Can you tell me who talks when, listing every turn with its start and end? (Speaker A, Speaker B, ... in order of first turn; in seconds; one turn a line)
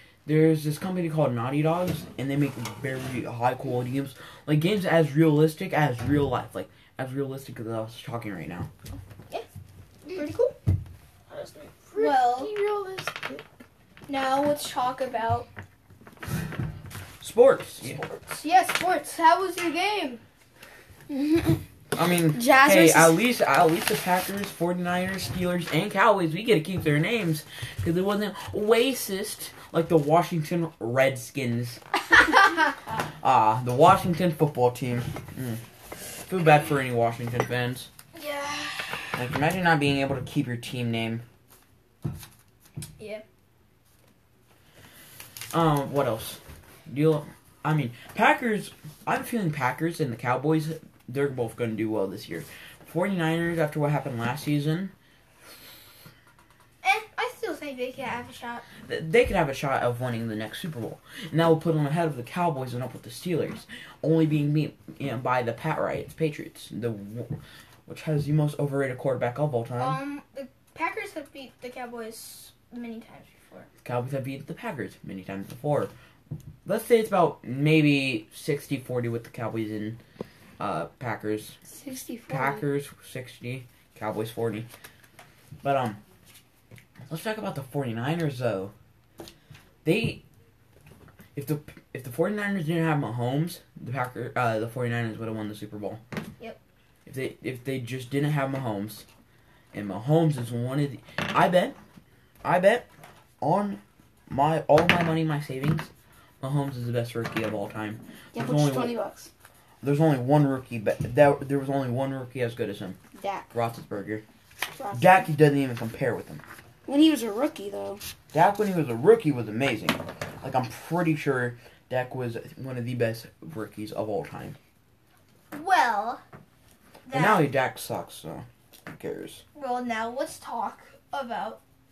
Speaker A: 0.3-8.7
Speaker B: 10.1-10.6
Speaker C: 11.3-13.4
Speaker B: 12.0-12.5
Speaker B: 14.1-15.5
Speaker A: 17.2-18.0
Speaker B: 17.8-20.2
Speaker C: 21.1-21.6
Speaker A: 21.9-31.8
Speaker C: 22.3-23.2
Speaker A: 33.2-35.6
Speaker A: 36.1-37.9
Speaker B: 38.1-39.1
Speaker A: 39.1-41.2
Speaker A: 45.5-54.9
Speaker B: 56.8-58.7
Speaker A: 58.8-70.0
Speaker B: 69.8-73.7
Speaker A: 73.8-75.9
Speaker A: 76.7-80.0
Speaker A: 80.6-81.6
Speaker C: 81.7-82.7
Speaker A: 82.3-84.7
Speaker A: 85.6-86.0
Speaker A: 87.1-88.7
Speaker A: 89.8-90.2
Speaker A: 91.3-96.0
Speaker A: 97.1-99.1
Speaker A: 99.7-101.8
Speaker A: 102.4-102.9
Speaker A: 103.4-105.9
Speaker A: 106.4-109.0
Speaker C: 108.3-109.3
Speaker A: 109.8-113.0
Speaker C: 113.1-113.5
Speaker A: 113.5-114.2
Speaker C: 114.8-115.3
Speaker A: 114.9-116.4
Speaker C: 116.9-118.0
Speaker A: 118.3-124.6
Speaker B: 125.5-126.2
Speaker B: 127.1-127.4
Speaker A: 127.1-129.4
Speaker B: 129.6-131.6